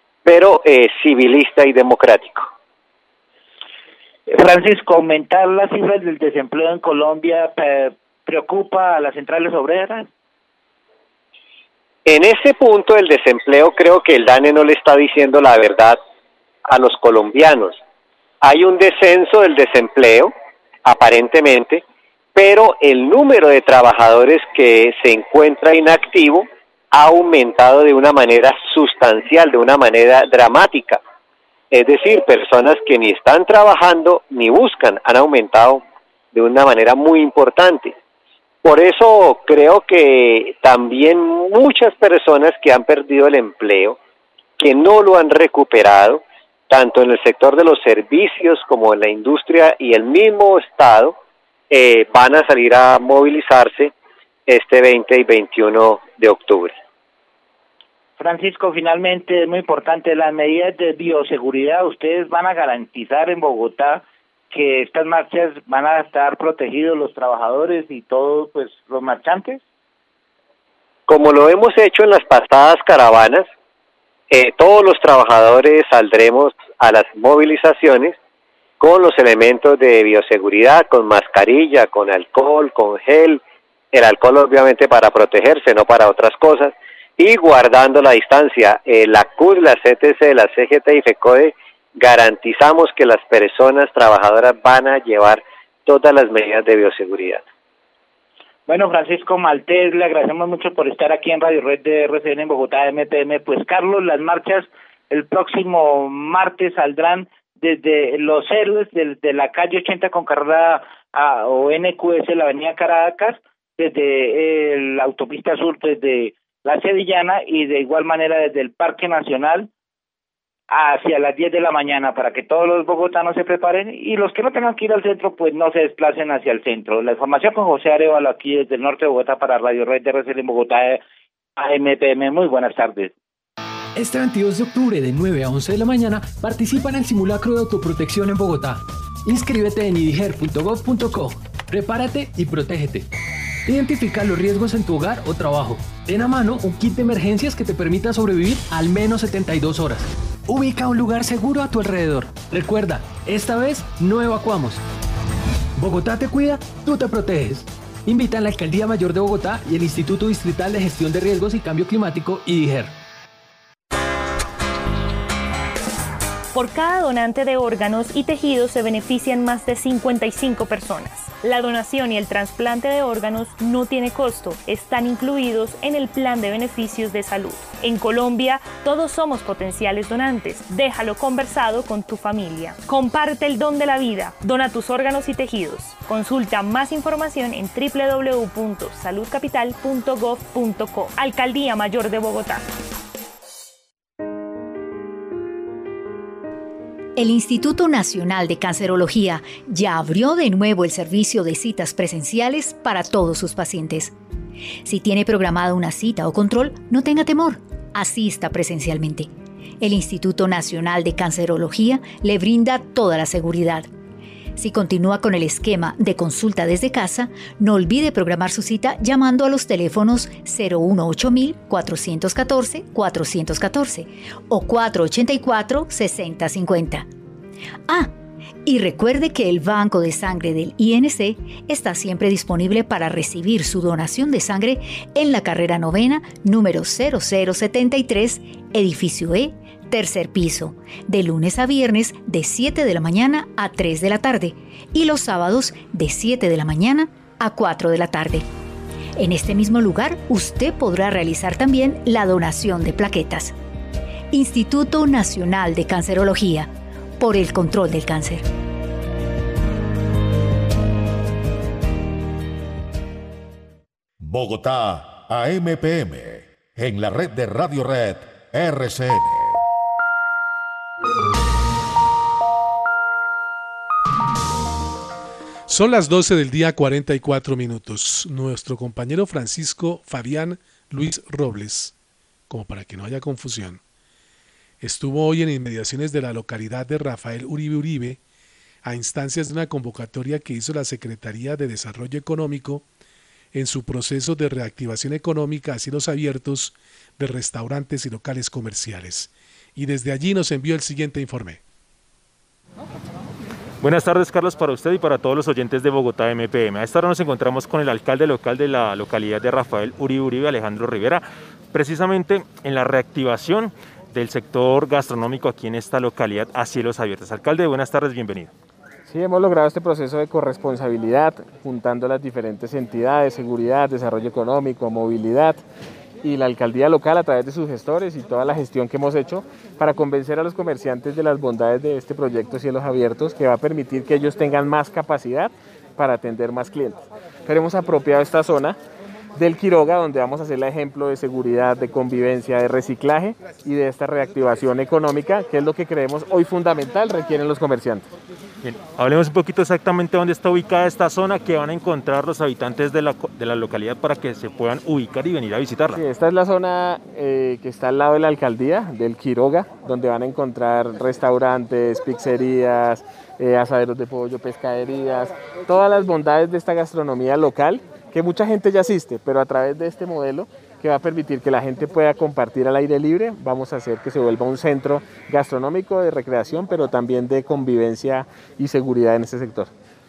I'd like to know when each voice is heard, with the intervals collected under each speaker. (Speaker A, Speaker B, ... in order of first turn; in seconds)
Speaker A: 0.2-2.5, 12.1-16.0, 16.7-17.8, 18.4-20.3, 20.8-21.8, 22.3-31.0, 31.7-35.8, 36.3-38.0, 38.6-44.0, 44.6-51.1, 51.7-53.9, 54.5-56.8, 71.1-73.5, 74.3-78.1, 78.8-83.4, 83.9-97.4
Speaker B: 4.3-10.1, 58.2-69.6, 98.7-119.7, 120.7-131.0, 131.6-133.1
Speaker C: 133.9-143.1, 143.7-154.8, 155.8-162.9
Speaker D: 166.5-192.6
Speaker E: 197.2-204.1, 204.8-209.3, 209.8-213.9, 214.6-227.1, 228.7-248.4, 249.2-253.5, 254.3-256.7, 257.2-258.4
Speaker F: 264.2-269.6
Speaker G: 275.7-281.9, 282.5-283.8, 284.8-288.2, 288.8-292.8, 293.5-301.6
Speaker H: 303.8-318.5, 348.6-356.0
Speaker I: 319.1-325.6, 326.2-338.8, 339.4-348.1, 355.9-379.7